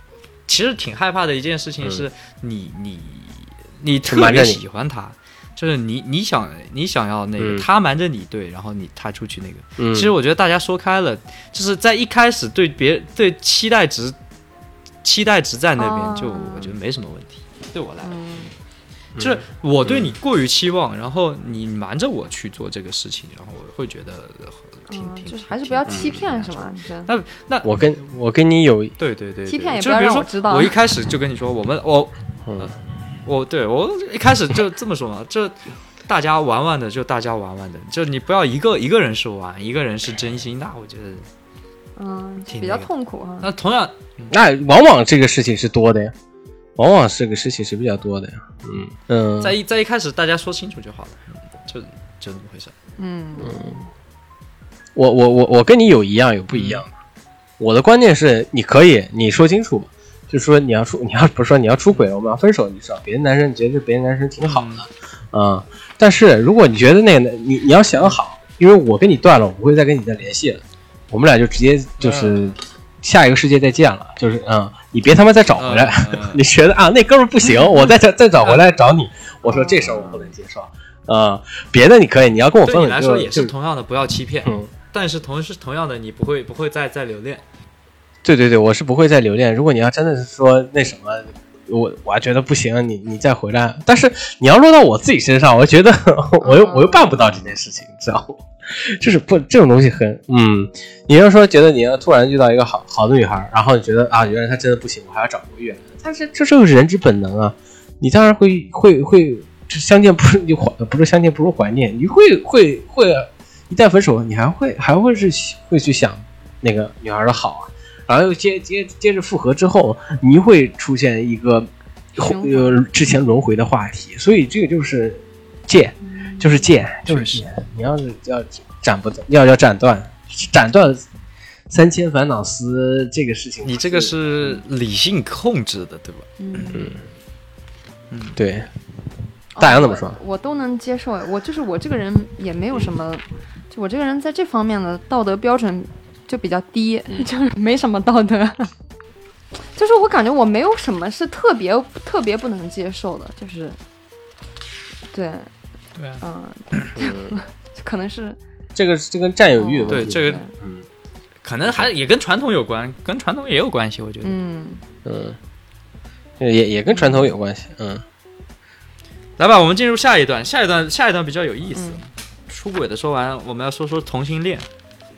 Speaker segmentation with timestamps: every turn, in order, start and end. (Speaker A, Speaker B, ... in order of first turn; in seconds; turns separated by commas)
Speaker A: 0.5-14.2, Speaker B: 4.0-4.6, Speaker B: 7.4-7.7, Speaker B: 9.8-10.2, Speaker A: 15.0-18.2, Speaker C: 15.8-16.7, Speaker C: 18.0-18.5, Speaker B: 19.2-20.1, Speaker A: 19.2-27.7, Speaker C: 24.9-27.1, Speaker B: 25.9-26.2, Speaker B: 27.6-29.0, Speaker A: 29.0-41.3, Speaker C: 29.5-30.8, Speaker B: 32.5-32.8, Speaker C: 42.0-43.5, Speaker A: 42.5-42.9, Speaker A: 43.4-44.4, Speaker B: 44.3-46.1, Speaker B: 46.8-49.6, Speaker A: 49.4-52.7, Speaker C: 53.0-53.7, Speaker B: 53.4-53.9, Speaker B: 55.0-56.9, Speaker A: 56.5-56.8, Speaker B: 57.6-83.5, Speaker A: 64.4-64.8, Speaker A: 72.0-72.4, Speaker A: 75.6-76.4, Speaker C: 79.5-80.0, Speaker A: 82.6-87.4, Speaker B: 84.5-84.7, Speaker B: 88.2-131.0, Speaker C: 96.4-97.2, Speaker C: 122.2-122.9, Speaker C: 126.1-126.7, Speaker A: 127.0-127.5, Speaker B: 131.7-134.6, Speaker A: 133.6-136.8, Speaker C: 136.4-136.9, Speaker B: 136.7-137.0, Speaker A: 138.1-138.4, Speaker B: 138.4-138.7, Speaker C: 139.6-148.7, Speaker B: 139.6-140.2, Speaker C: 149.8-153.8, Speaker C: 155.1-155.5, Speaker A: 156.0-156.2, Speaker C: 156.2-158.4, Speaker B: 157.0-157.3, Speaker B: 158.8-160.8, Speaker C: 159.6-160.5, Speaker A: 159.9-160.4, Speaker A: 161.4-164.4, Speaker B: 161.7-161.9, Speaker C: 164.2-164.8, Speaker B: 165.1-165.4, Speaker B: 166.4-168.0, Speaker C: 166.9-167.3, Speaker A: 169.4-174.7